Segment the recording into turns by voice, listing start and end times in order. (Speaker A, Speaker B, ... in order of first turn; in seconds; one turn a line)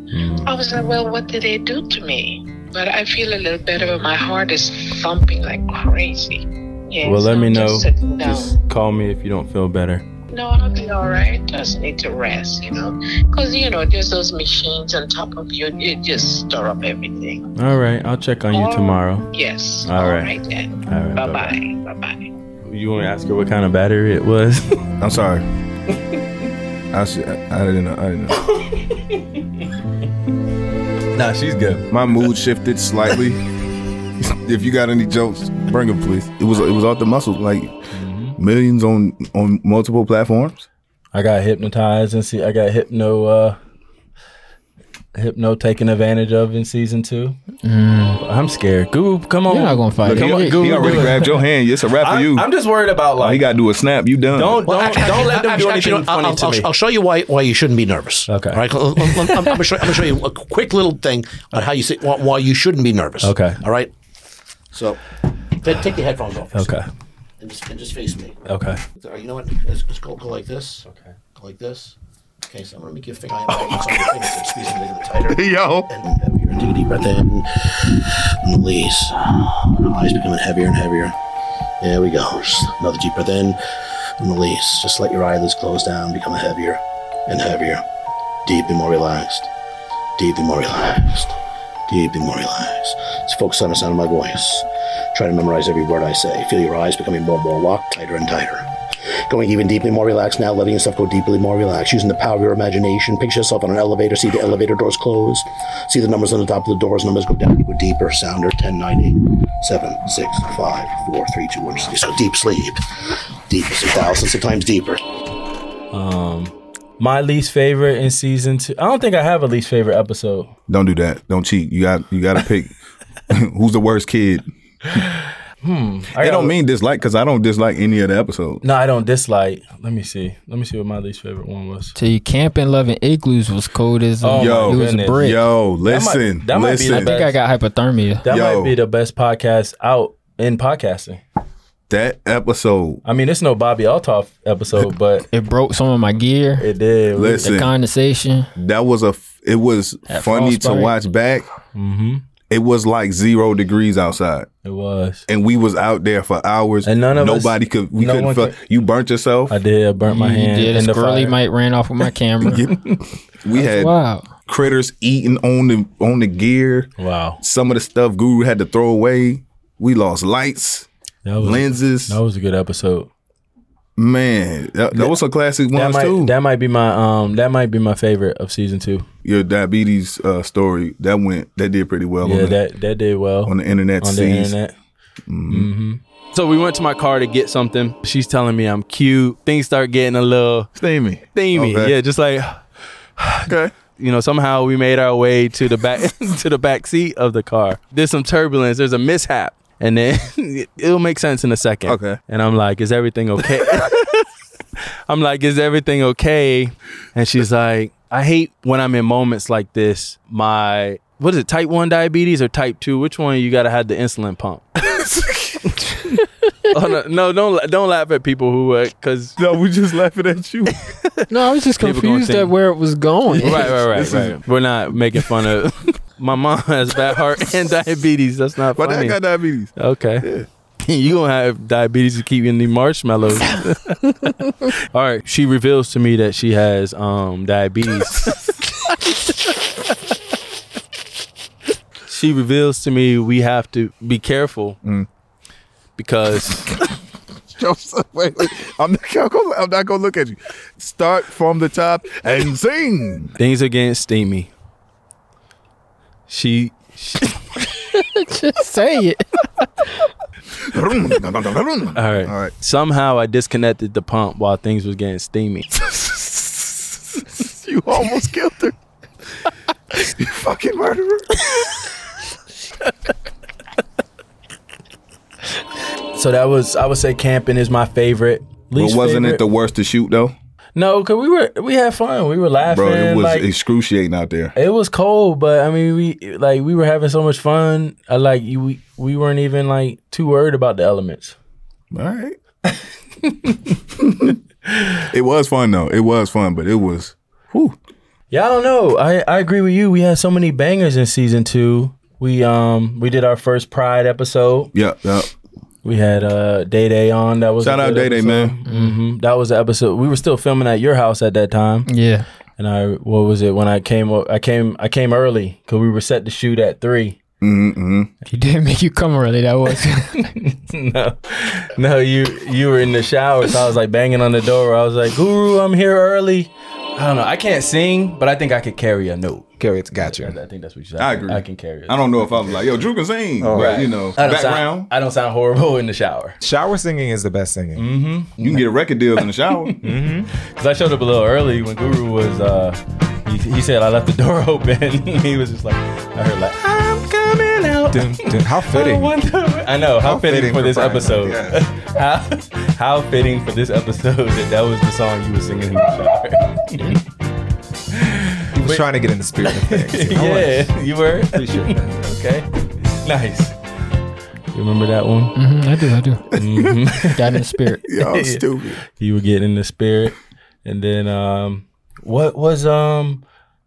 Speaker A: 0.1-0.5
Speaker B: 0.5-8.6
Speaker A: 7.0-10.1
Speaker B: 10.3-17.4
Speaker A: 17.6-19.3
Speaker B: 18.6-22.3
Speaker A: 19.9-21.6
Speaker A: 22.6-24.8
Speaker C: 25.0-25.5
Speaker C: 26.9-28.5
Speaker A: 31.1-31.9
Speaker C: 31.9-33.4
Speaker C: 34.2-37.7
Speaker A: 37.9-38.4
Speaker C: 38.4-40.7
Speaker A: 41.1-43.6
Speaker A: 45.1-47.4
Speaker D: 47.6-48.2
Speaker A: 48.2-51.4
Speaker D: 49.5-51.3
Speaker C: 50.0-52.5
Speaker A: 52.0-53.5
Speaker C: 53.2-54.6
Speaker A: 54.3-56.7
Speaker E: 54.6-63.9
Speaker A: 58.3-58.6
Speaker A: 63.2-63.6
Speaker E: 64.7-65.0
Speaker E: 65.6-66.8
Speaker A: 66.5-66.9
Speaker E: 67.4-68.4
Speaker A: 68.5-68.8
Speaker E: 69.0-72.0
Speaker A: 70.9-71.1
Speaker E: 72.5-81.2
Speaker C: 73.5-74.3
Speaker C: 75.2-75.9
Speaker E: 81.8-83.6
Speaker E: 84.2-87.8
Speaker E: 88.5-89.5
Speaker E: 90.2-91.4
Speaker E: 91.9-98.7
Speaker E: 99.3-115.0
Speaker A: 115.9-120.5
Speaker C: 120.7-122.8
Speaker C: 123.3-124.5
Speaker A: 125.6-126.5
Speaker C: 126.2-128.6
Speaker A: 128.6-131.9
Speaker D: 131.9-135.4
Speaker A: 134.2-135.3
Speaker C: 134.3-137.1
Speaker A: 135.8-137.4
Speaker D: 136.9-138.3
Speaker A: 138.2-141.2
Speaker C: 138.3-138.8
Speaker C: 141.9-143.0
Speaker A: 143.1-145.3
Speaker D: 145.3-146.7
Speaker A: 146.6-147.5
Speaker C: 147.2-147.7
Speaker D: 147.4-148.5
Speaker C: 148.6-151.5
Speaker D: 150.1-151.0
Speaker A: 151.7-152.2
Speaker C: 152.5-154.5
Speaker A: 154.6-155.2
Speaker C: 155.3-159.6
Speaker A: 156.8-158.6
Speaker A: 159.5-161.4
Speaker D: 160.1-162.7
Speaker C: 162.4-163.9
Speaker D: 163.5-164.3
Speaker C: 164.5-170.9
Speaker A: 167.0-167.4
Speaker A: 171.2-173.1
Speaker C: 171.4-172.2
Speaker C: 174.0-176.3
Speaker A: 175.7-179.1
Speaker C: 179.2-182.6
Speaker A: 182.2-184.8
Speaker C: 183.5-184.6
Speaker C: 185.3-185.7
Speaker A: 185.5-190.7
Speaker C: 190.8-191.9
Speaker A: 191.3-192.6
Speaker A: 193.2-204.3
Speaker C: 193.5-193.7
Speaker C: 201.9-202.2
Speaker A: 205.1-214.9
Speaker C: 214.8-215.8
Speaker A: 216.7-219.4
Speaker C: 219.4-220.9
Speaker D: 221.3-223.8
Speaker A: 221.8-222.6
Speaker A: 223.4-229.2
Speaker C: 223.4-224.4
Speaker C: 228.8-230.5
Speaker A: 229.8-230.3
Speaker A: 230.8-238.5
Speaker A: 242.1-244.8
Speaker A: 246.0-246.7
Speaker C: 247.6-253.3
Speaker A: 253.4-254.5
Speaker A: 256.3-257.4
Speaker D: 257.9-259.9
Speaker C: 260.6-262.5
Speaker A: 261.9-265.7
Speaker C: 265.9-266.6
Speaker C: 267.4-268.7
Speaker C: 270.0-271.5
Speaker A: 276.1-279.4
Speaker C: 278.8-280.4
Speaker A: 280.8-283.5
Speaker C: 282.7-284.5
Speaker A: 284.6-291.4
Speaker C: 291.9-292.4
Speaker A: 292.7-293.7
Speaker C: 294.1-294.4
Speaker C: 295.1-297.8
Speaker A: 298.3-304.7
Speaker C: 304.7-305.3
Speaker A: 305.8-311.9
Speaker C: 307.6-308.6
Speaker D: 308.7-309.0
Speaker D: 311.9-312.3
Speaker A: 312.6-317.2
Speaker C: 317.4-318.1
Speaker D: 318.3-320.3
Speaker A: 320.2-332.2
Speaker F: 329.6-330.4
Speaker C: 331.0-334.9
Speaker F: 333.4-333.9
Speaker A: 333.5-336.4
Speaker F: 336.4-337.9
Speaker A: 337.8-338.6
Speaker C: 338.4-339.8
Speaker A: 339.6-357.0
Speaker F: 339.8-340.3
Speaker F: 347.9-349.1
Speaker F: 350.0-351.6
Speaker A: 357.9-358.9
Speaker F: 358.5-361.9
Speaker A: 359.4-363.6
Speaker A: 364.5-365.4
Speaker D: 365.4-366.4
Speaker A: 366.3-367.4
Speaker D: 367.0-367.9
Speaker C: 367.9-368.8
Speaker A: 367.9-373.2